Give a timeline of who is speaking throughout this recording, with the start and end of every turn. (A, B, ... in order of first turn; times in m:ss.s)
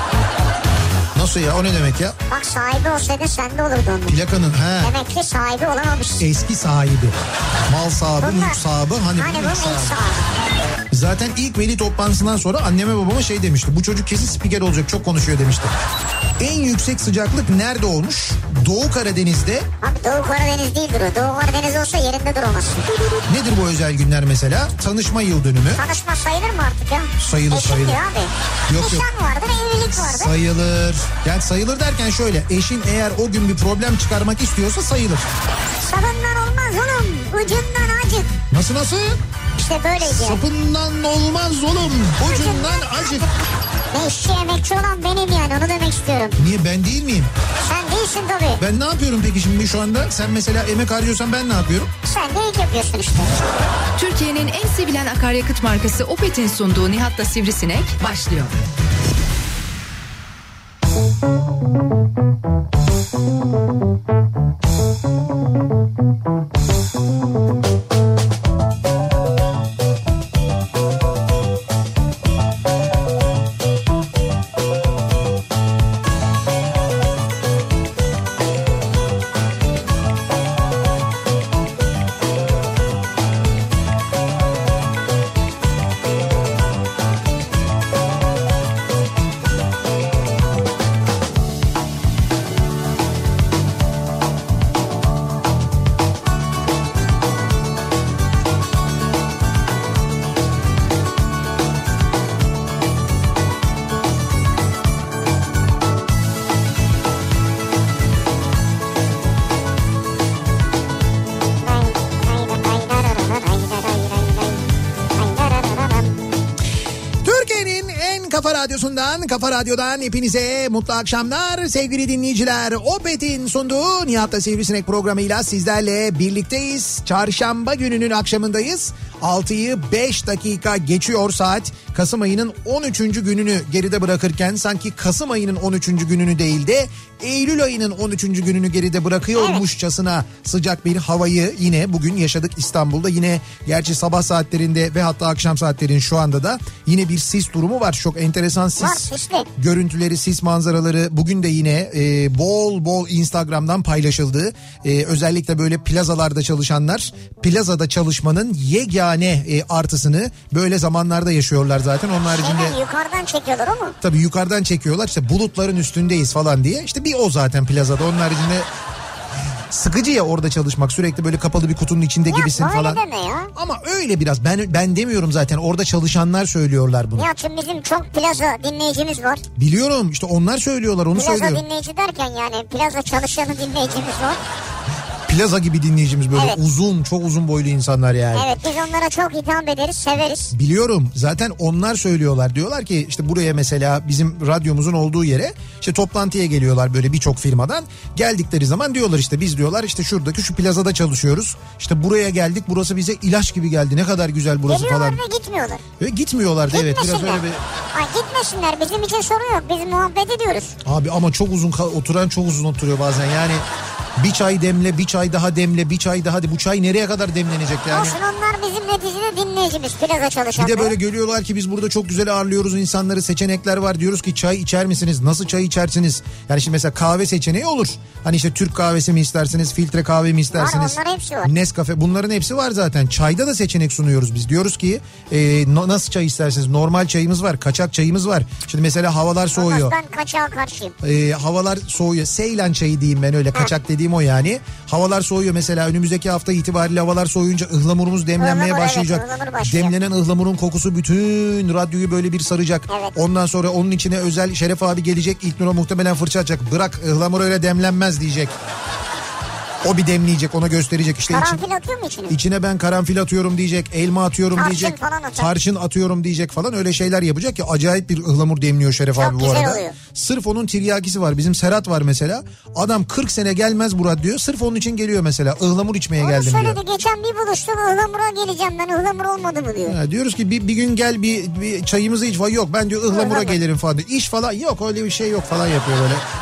0:01.1-0:02.2 A
0:02.3-0:04.2 B
0:04.1-0:05.0 A
0:04.8-0:06.2 B
0:06.2-0:07.2 A
0:07.7-0:10.0 A
0:08.2-0:08.6 B
0:09.2-0:10.3 B
0:10.9-0:15.7 A
0:16.4-0:19.7 A
0:19.8-0:22.9 B
0:23.3-0:25.8 A
0:25.7-0:30.3 B
0:27.2-0:28.0 A
0:28.7-0:29.0 A
0:29.9-0:35.3 A
0:35.8-0:38.4 B
0:38.5-0:39.2 A
0:39.6-0:40.4 B
0:40.0-0:43.3 A
0:42.2-0:43.3 B
0:43.9-0:46.4 B
0:46.4-0:47.3 A
0:47.6-0:48.6 B
0:48.6-0:51.9 A
0:52.0-0:53.3 B
0:54.0-0:58.6 C
1:51.6-1:56.2 B
1:57.2-2:42.8 A
2:19.3-2:19.6 B
2:28.8-2:29.5 B
2:42.3-2:44.0 B
2:44.0-2:48.7 A
2:49.7-2:53.0 A
2:52.3-2:53.5 B
2:53.5-2:57.3 A
2:57.2-2:59.4 B
2:59.6-3:01.6 A
3:01.1-3:04.4 B
3:05.3-3:08.5 A
3:08.3-3:10.5 B
3:10.5-3:25.2 A
3:24.7-3:25.8 B
3:26.0-3:27.6 A
3:26.7-3:27.4 B
3:27.9-3:30.8 B
3:30.8-3:33.6 A
3:34.2-3:38.2 A
3:37.9-3:40.9 B
3:40.6-3:59.9 A
3:50.5-3:51.5 B
3:59.5-4:00.9 B
4:01.0-4:18.5 A
4:08.4-4:09.9 B
4:12.9-4:13.1 B
4:19.8-4:21.6 A
4:21.3-4:22.4 B
4:22.3-4:36.8 A
4:24.5-4:25.5 B
4:29.2-4:30.0 B
4:36.2-4:40.0 B
4:39.8-4:46.2 A
4:43.1-4:43.6 B